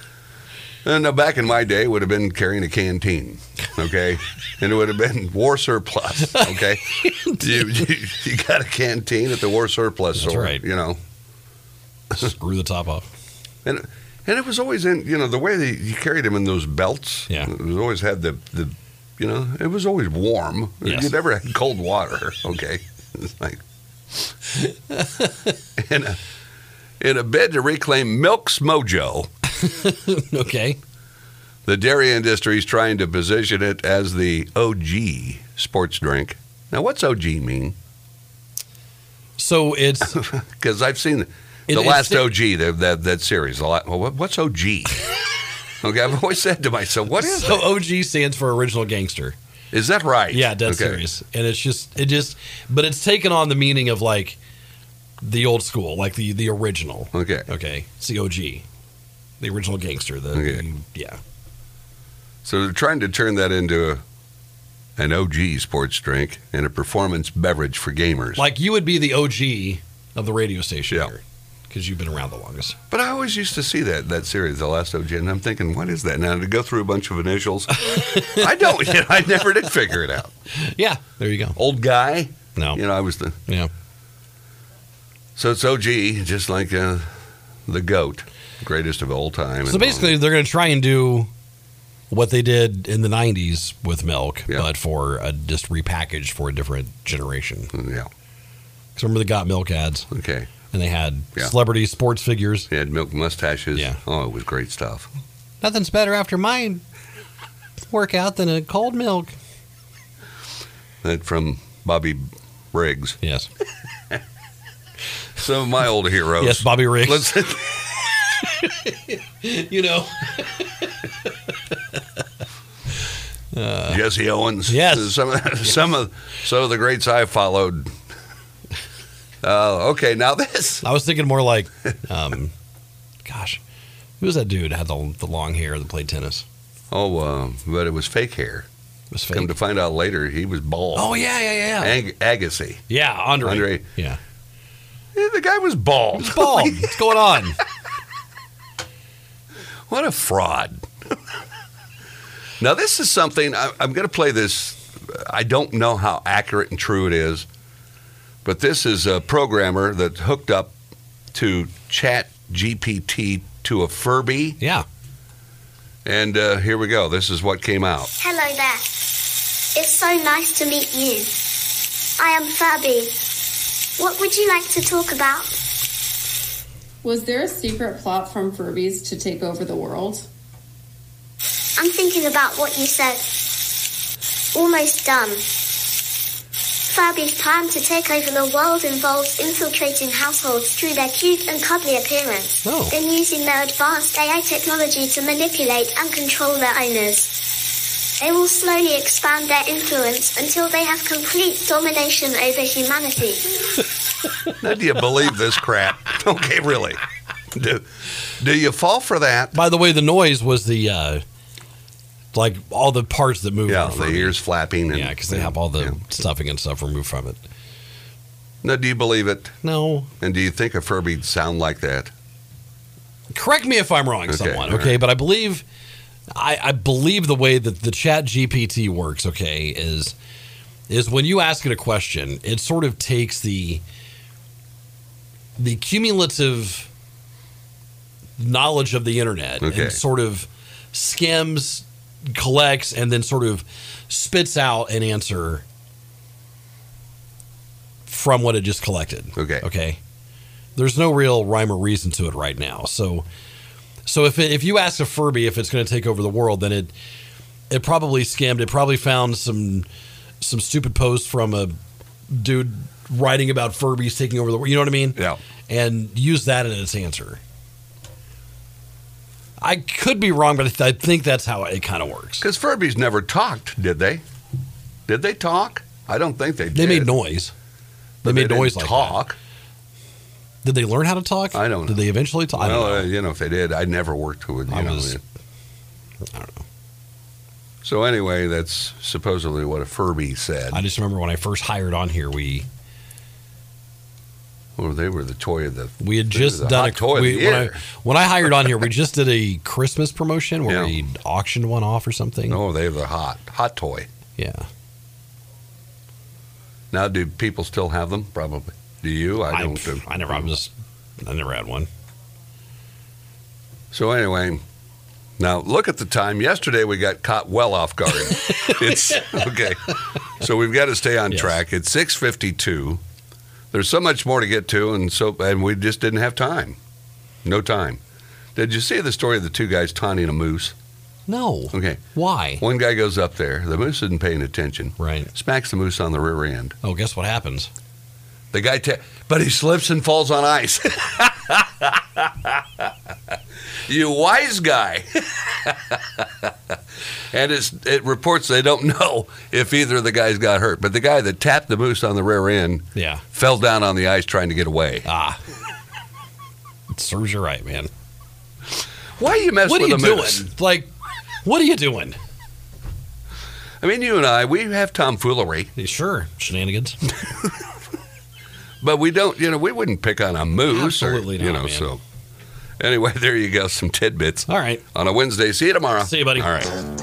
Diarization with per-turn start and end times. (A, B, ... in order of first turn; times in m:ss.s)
0:00.8-0:11.0 A
0:06.4-0:07.4 B
0:10.2-0:10.6 B
0:12.1-0:13.1 B
0:13.6-0:23.6 A
0:20.8-0:21.1 B
0:24.9-0:25.5 B
0:25.8-0:26.2 A
0:27.0-0:29.3 A
0:29.5-0:30.8 B
0:31.7-0:37.8 A
0:39.4-0:40.2 B
0:40.1-0:45.0 A
0:41.7-0:42.4 B
0:45.8-0:47.7 A
0:47.2-0:49.4 B
0:49.7-0:51.0 A
0:50.3-0:54.4 B
0:55.2-0:58.6 B
0:57.1-0:57.5 A
0:59.4-1:01.2 B
1:00.3-1:00.6 A
1:02.4-1:04.0 A
1:05.0-1:08.4 A
1:08.4-1:12.8 B
1:12.9-1:20.3 A
1:17.8-1:18.5 B
1:20.5-1:21.6 B
1:21.6-1:23.4 A
1:22.6-1:22.8 B
1:25.4-1:27.1 A
1:27.7-1:30.2 A
1:29.7-1:31.3 B
1:32.1-1:37.7 B
1:37.7-1:38.1 A
1:39.0-1:40.1 B
1:40.1-1:40.5 A
1:40.7-1:42.7 B
1:42.7-1:45.1 A
1:45.6-1:46.8 B
1:47.9-1:49.3 B
1:51.0-1:53.2 A
1:53.2-1:53.5 B
1:55.4-1:57.8 A
1:56.4-1:57.6 B
1:58.2-2:02.0 B
2:03.5-2:04.0 B
2:03.9-2:08.0 A
2:04.7-2:05.2 B
2:09.4-2:10.8 A
2:10.8-2:12.5 B
2:13.2-2:13.6 B
2:14.2-2:16.4 B
2:16.9-2:18.7 A
2:19.1-2:19.5 B
2:19.3-2:21.2 A
2:21.0-2:22.0 B
2:21.8-2:22.8 A
2:22.9-2:24.2 B
2:23.4-2:23.8 A
2:25.1-2:27.0 A
2:26.1-2:27.6 B
2:29.9-2:30.9 A
2:32.6-2:37.5 A
2:38.4-2:40.8 A
2:41.3-2:44.6 A
2:44.6-2:44.9 B
2:46.0-2:48.1 A
2:48.2-2:51.6 C
2:52.2-2:53.3 C
2:54.0-2:55.6 C
2:57.0-3:00.3 D
3:01.8-3:03.5 C
3:04.5-3:05.6 C
3:06.9-3:17.4 C
3:12.6-3:12.9 B
3:18.2-3:23.7 C
3:24.6-3:27.0 A
3:27.5-3:27.9 A
3:28.4-3:29.6 A
3:29.5-3:31.2 B
3:32.3-3:34.4 B
3:33.7-3:36.0 A
3:34.9-3:37.4 B
3:38.6-3:39.6 A
3:39.6-3:40.1 B
3:40.2-3:42.1 A
3:43.3-3:45.6 B
3:44.3-3:45.0 A
3:46.3-3:50.2 B
3:50.9-3:53.8 B
3:55.6-3:56.9 B
3:58.4-4:05.6 B
3:59.6-4:00.0 A
4:08.1-4:10.0 B
4:09.4-4:09.6 A
4:10.8-4:13.3 B
4:14.1-4:16.9 B
4:17.7-4:19.9 B
4:20.4-4:21.7 B
4:22.3-4:27.4 B
4:29.6-4:32.5 B
4:32.4-4:34.2 A
4:35.1-4:37.1 A
4:36.8-4:37.5 B
4:38.2-4:39.4 A
4:38.2-4:39.2 B
4:40.6-4:43.1 B
4:41.5-4:42.0 A
4:42.5-4:45.2 A
4:44.7-4:45.2 B
4:46.3-4:46.6 B
4:47.8-4:50.8 A
4:50.7-4:52.7 B
4:54.8-4:57.8 A
4:56.0-5:02.6 B
4:58.6-4:58.8 A
5:00.7-5:01.0 A
5:02.5-5:04.1 A
5:04.4-5:04.7 B
5:06.9-5:10.4 A
5:09.5-5:11.9 B
5:13.9-5:14.6 A
5:15.4-5:23.0 A
5:18.3-5:19.4 B
5:21.3-5:21.6 B
5:23.7-5:26.8 A
5:27.4-5:28.0 A
5:28.6-5:30.8 A
5:31.3-5:32.6 B
5:31.7-5:32.0 A
5:32.6-5:36.8 A
5:35.0-5:35.3 B
5:36.8-5:37.7 B
5:38.5-5:43.4 A
5:43.9-5:46.8 A
5:47.3-5:55.1 A
5:53.0-5:53.2 B
5:55.0-5:55.4 B
5:56.9-5:57.9 B
5:59.2-6:00.5 A
5:59.7-6:00.9 B
6:01.4-6:02.2 B
6:03.8-6:05.7 A
6:05.8-6:07.1 B
6:08.8-6:12.0 A
6:10.7-6:11.9 B
6:12.8-6:16.8 A
6:14.5-6:14.8 B
6:16.0-6:16.5 B